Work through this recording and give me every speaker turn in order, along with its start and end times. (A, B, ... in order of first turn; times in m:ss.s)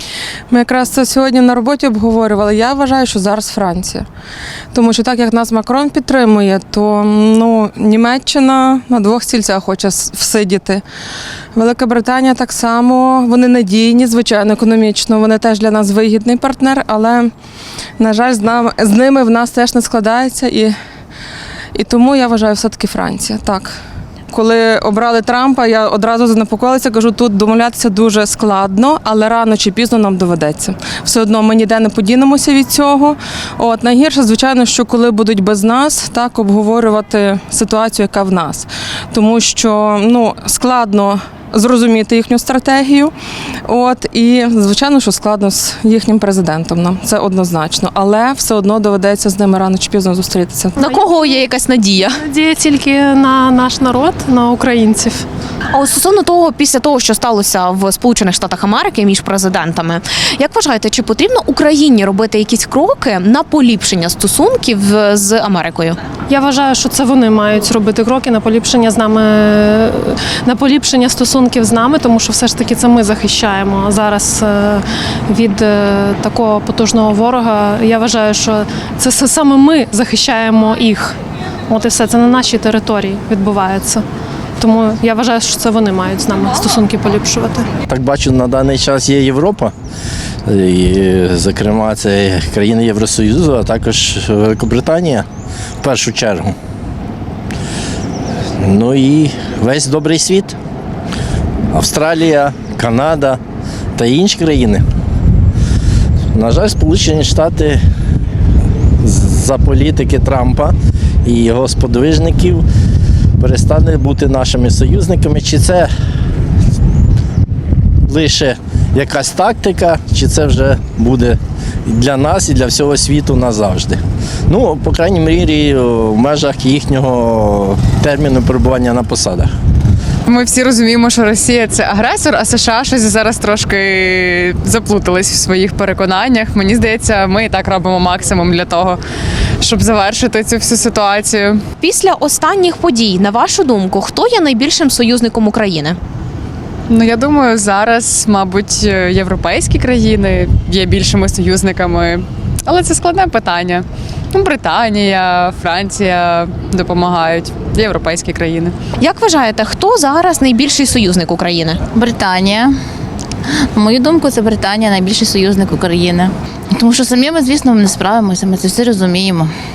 0:00.5-0:04.0 A
0:04.7-0:10.8 A
0:11.5-0:17.3 A
0:18.0-0:20.8 A
0:21.7-0:43.1 A
0:43.6-0:50.9 A
0:50.8-0:52.2 B
0:52.2-0:55.2 C
0:55.7-1:06.0 B
1:06.3-1:21.1 C
1:21.7-1:24.0 C
1:24.6-1:27.6 C
1:27.9-1:29.7 D
1:30.5-1:35.2 D
1:35.8-1:36.5 D
1:38.6-1:40.6 D
1:41.7-1:43.4 D
1:44.0-1:44.8 D
1:46.3-1:47.8 D
1:49.0-1:50.7 D
1:51.2-1:52.6 D
1:53.4-1:55.9 D
1:58.1-2:09.5 D
2:10.2-2:19.0 E
2:19.6-2:21.6 E
2:21.8-2:26.0 B
2:26.9-2:38.7 E
2:39.0-2:41.8 B
2:41.9-2:42.8 F
2:43.7-2:49.5 F